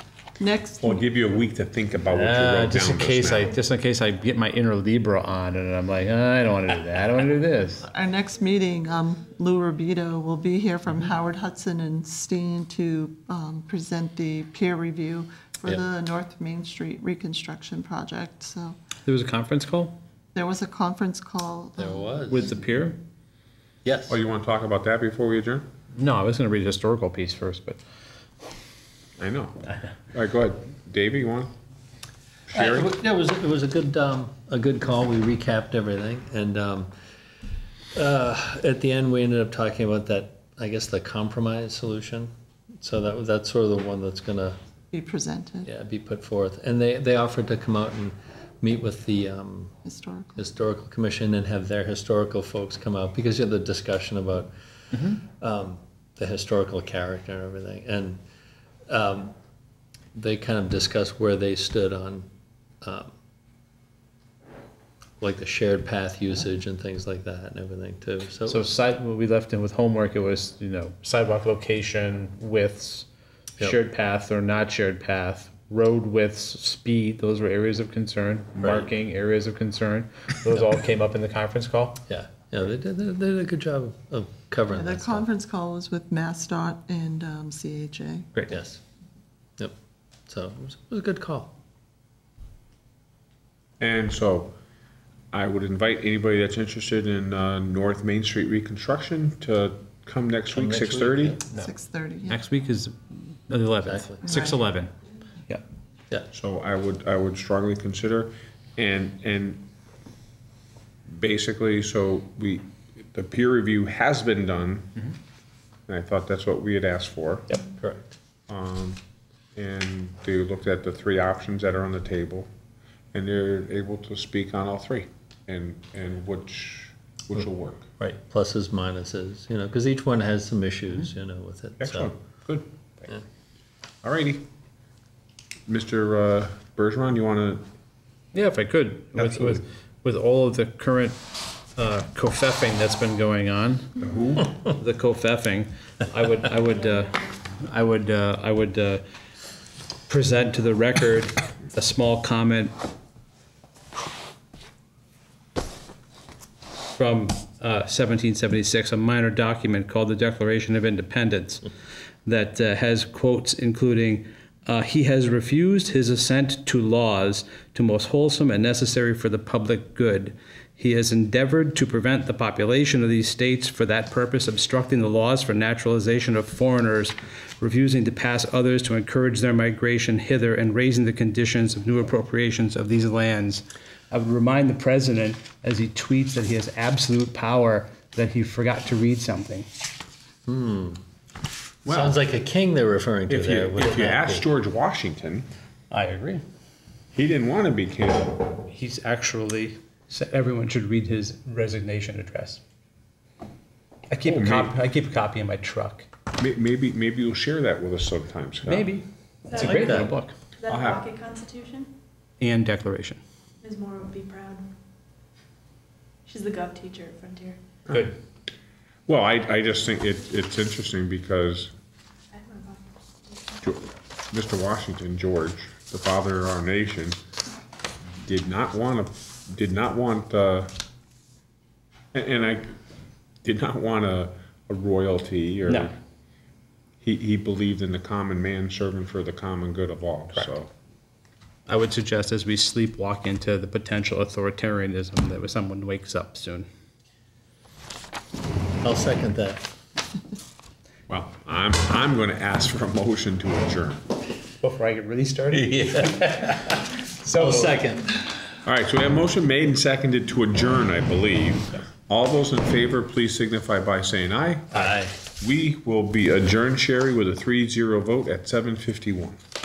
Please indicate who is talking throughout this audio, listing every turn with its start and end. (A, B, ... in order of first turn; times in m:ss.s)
0:00.4-0:01.0 A
0:00.8-0:03.5 B
0:02.1-0:07.8 C
0:07.9-0:18.8 A
0:19.0-0:20.0 C
0:20.3-0:22.5 A
0:21.8-0:22.5 D
0:22.3-0:23.0 C
0:23.8-0:24.2 D
0:24.1-0:25.7 B
0:25.9-0:27.8 C
0:29.2-0:31.5 B
0:32.5-0:32.9 B
0:32.5-0:36.9 D
0:37.9-0:44.6 D
0:44.9-0:45.7 A
0:45.6-0:49.8 D
0:49.8-0:50.5 A
0:50.4-0:58.2 D
0:54.9-0:55.2 C
0:58.8-0:59.3 D
1:00.1-1:02.3 D
1:02.8-1:03.1 D
1:05.2-1:08.7 D
1:08.5-1:13.1 C
1:13.6-1:22.0 C
1:22.1-1:25.3 D
1:24.7-1:28.3 A
1:28.5-1:28.8 D
1:29.6-1:31.5 D
1:33.8-1:34.6 B
1:35.3-1:41.4 B
1:40.5-1:41.4 D
1:41.5-1:42.4 A
1:42.3-1:44.9 C
1:43.8-1:44.3 D
1:44.2-1:44.6 A
1:46.3-1:49.7 B
1:51.1-1:55.1 B
1:55.9-1:57.6 B
1:57.8-1:58.1 D
1:58.5-1:59.0 B
1:59.5-2:02.5 B
2:03.1-2:07.9 B
2:08.0-2:12.1 D
2:11.8-2:12.7 B
2:14.0-2:14.4 B
2:15.7-2:17.7 B
2:18.3-2:21.2 C
2:19.2-2:19.6 B
2:21.7-2:24.0 C
2:24.0-2:24.7 B
2:24.6-2:29.0 C
2:30.1-2:32.7 C
2:36.9-2:41.6 C
2:42.2-3:09.7 C
3:10.4-3:11.0 D
3:11.8-3:14.4 D
3:11.9-3:12.2 B
3:13.3-3:15.5 B
3:15.9-3:16.4 C
3:17.1-3:18.6 B
3:18.7-3:22.6 C
3:24.1-3:26.1 C
3:24.2-3:24.8 B
3:26.4-3:29.0 B
3:28.6-3:30.3 C
3:29.4-3:29.9 E
3:29.6-3:30.1 D
3:30.6-3:31.9 E
3:30.7-3:31.0 B
3:32.4-3:33.2 C
3:33.6-3:34.7 E
3:36.2-3:37.6 E
3:37.9-3:38.2 B
3:39.1-3:41.7 B
3:42.3-3:43.6 E
3:43.6-3:47.2 B
3:48.2-3:50.7 B
3:52.1-3:52.8 B
3:53.4-3:56.0 B
3:57.0-4:00.7 B
4:01.7-4:06.7 C
4:08.8-4:09.7 D
4:11.1-4:14.1 B
4:14.6-4:16.6 C
4:15.5-4:18.5 D
4:17.2-4:17.8 C
4:18.6-4:29.4 B
4:24.7-4:25.2 D